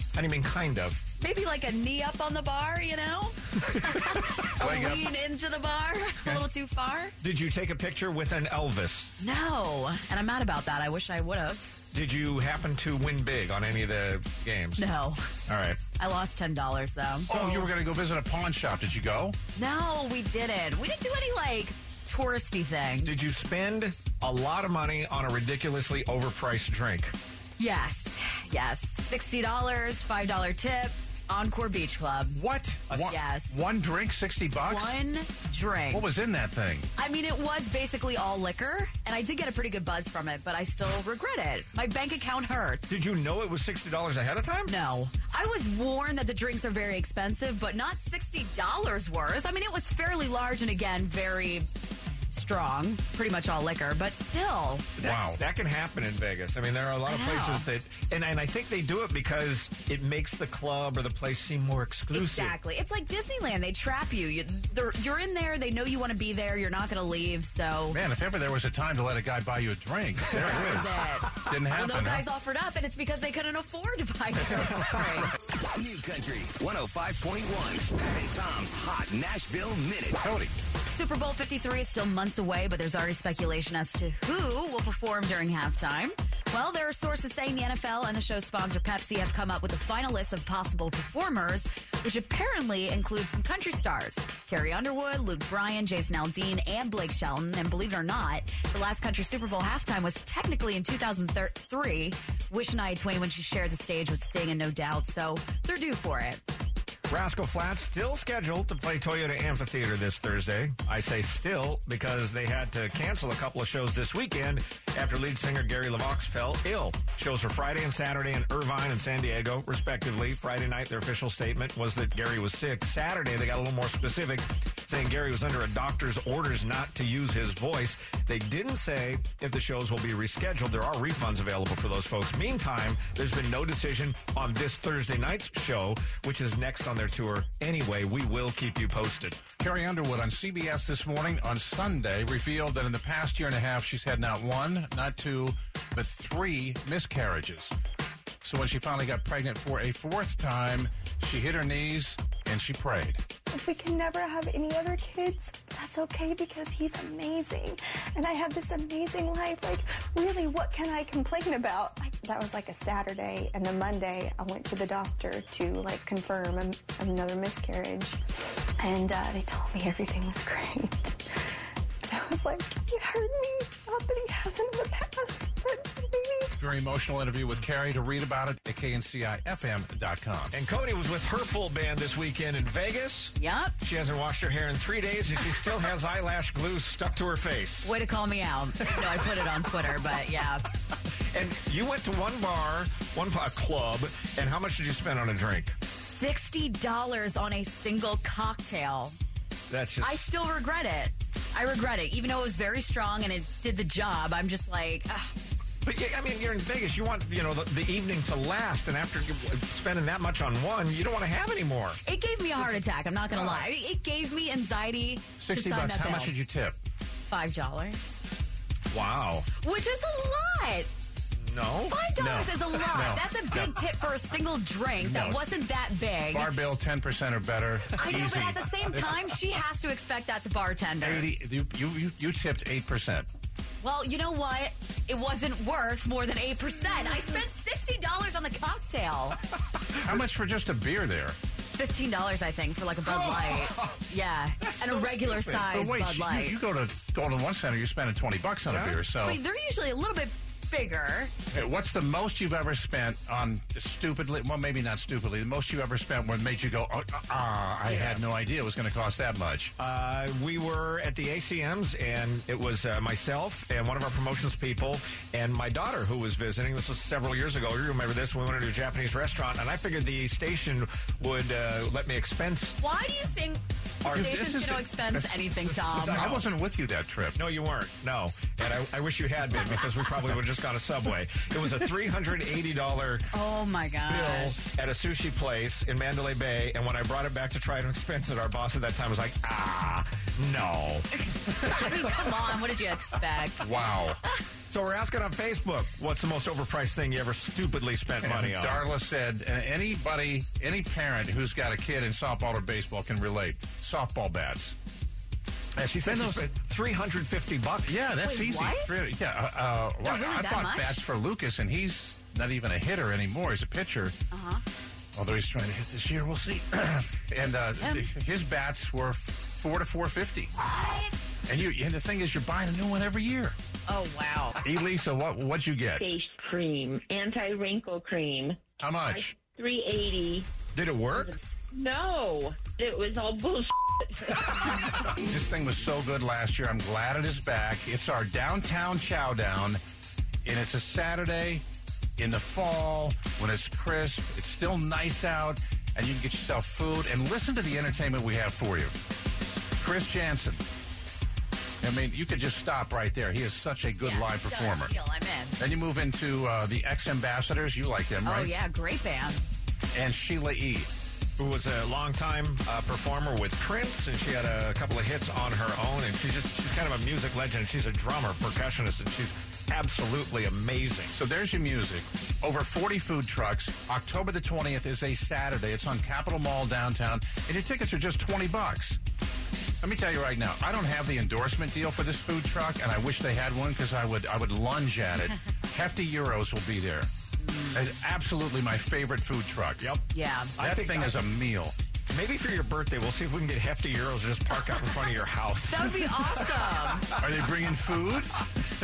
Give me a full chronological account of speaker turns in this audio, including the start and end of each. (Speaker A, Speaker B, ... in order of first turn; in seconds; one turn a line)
Speaker A: 0.1-1.0
Speaker B: 1.2-7.2
Speaker C: 4.6-5.1
Speaker A: 7.2-9.1
Speaker B: 9.2-11.8
Speaker A: 11.9-14.9
Speaker B: 14.8-15.3
Speaker A: 15.5-15.8
Speaker B: 16.0-17.3
Speaker C: 17.3-19.4
Speaker A: 17.3-17.7
Speaker B: 19.6-23.3
Speaker A: 23.0-27.1
Speaker B: 27.6-32.4
Speaker C: 32.3-35.0
Speaker A: 32.9-33.2
Speaker B: 33.1-33.6
Speaker B: 34.7-36.1
Speaker C: 35.9-36.9
Speaker B: 37.0-43.0
Speaker A: 42.9-44.7
Speaker B: 44.7-51.7
Speaker B: 52.3-54.9
Speaker C: 55.0-55.4
Speaker A: 55.0-62.5
Speaker B: 57.1-57.7
Speaker B: 62.1-68.0
Speaker C: 67.9-72.2
Speaker A: 70.3-70.9
Speaker B: 70.4-75.3
Speaker A: 74.4-75.3
Speaker D: 75.7-80.2
Speaker C: 80.2-80.5
Speaker B: 80.9-106.4
Speaker A: 107.1-139.4
Speaker C: 139.6-147.8
Speaker C: 148.4-153.2
Speaker E: 153.5-176.5
Speaker C: 176.6-180.5
Speaker A: 180.5-187.9
Speaker B: 183.4-183.8
Speaker B: 187.8-190.7
Speaker A: 188.9-189.2
Speaker A: 191.3-195.8
Speaker B: 195.9-199.2
Speaker A: 199.7-200.2
Speaker B: 200.0-205.4
Speaker A: 205.8-212.0
Speaker B: 212.0-216.3
Speaker A: 212.6-213.7
Speaker C: 215.4-216.8
Speaker B: 217.3-218.3
Speaker A: 218.9-219.5
Speaker B: 219.6-220.9
Speaker A: 221.4-222.0
Speaker B: 221.9-226.5
Speaker C: 222.2-223.8
Speaker C: 225.0-225.4
Speaker C: 226.3-229.2
Speaker B: 227.9-231.3
Speaker C: 231.0-233.3
Speaker B: 233.8-239.4
Speaker C: 240.0-241.4
Speaker B: 241.7-246.6
Speaker A: 243.0-244.0
Speaker A: 244.6-245.7
Speaker C: 245.7-249.4
Speaker A: 248.7-249.0
Speaker B: 249.2-251.3
Speaker C: 251.5-259.7
Speaker A: 257.9-258.2
Speaker A: 259.8-272.8
Speaker B: 272.8-276.4
Speaker C: 274.1-277.4
Speaker A: 275.6-276.5
Speaker A: 277.4-283.3
Speaker B: 283.3-284.6
Speaker A: 284.1-292.3
Speaker B: 291.3-293.7
Speaker C: 293.6-294.2
Speaker A: 294.7-298.9
Speaker C: 298.2-304.8
Speaker C: 305.8-306.5
Speaker A: 305.8-308.0
Speaker C: 307.9-314.1
Speaker B: 308.2-309.0
Speaker B: 310.0-311.0
Speaker B: 314.3-314.6
Speaker C: 315.1-320.5
Speaker B: 317.8-318.1
Speaker B: 320.6-321.4
Speaker C: 321.5-323.6
Speaker B: 323.9-324.6
Speaker C: 324.6-326.1
Speaker F: 326.0-330.5
Speaker C: 328.8-329.4
Speaker A: 330.7-331.4
Speaker F: 331.1-334.7
Speaker C: 335.1-339.8
Speaker C: 340.4-341.6
Speaker C: 342.2-348.9
Speaker C: 349.8-350.6
Speaker C: 351.8-354.9
Speaker B: 354.0-355.6
Speaker C: 355.6-358.5
Speaker B: 358.2-359.5
Speaker C: 359.9-360.9
Speaker A: 361.4-371.1
Speaker C: 371.1-379.0
Speaker C: 379.8-387.1
Speaker B: 387.4-387.9
Speaker C: 387.7-389.9
Speaker A: 389.8-391.2
Speaker B: 390.1-390.6
Speaker C: 390.6-391.8
Speaker A: 392.1-397.2
Speaker B: 395.7-397.1
Speaker C: 397.1-398.4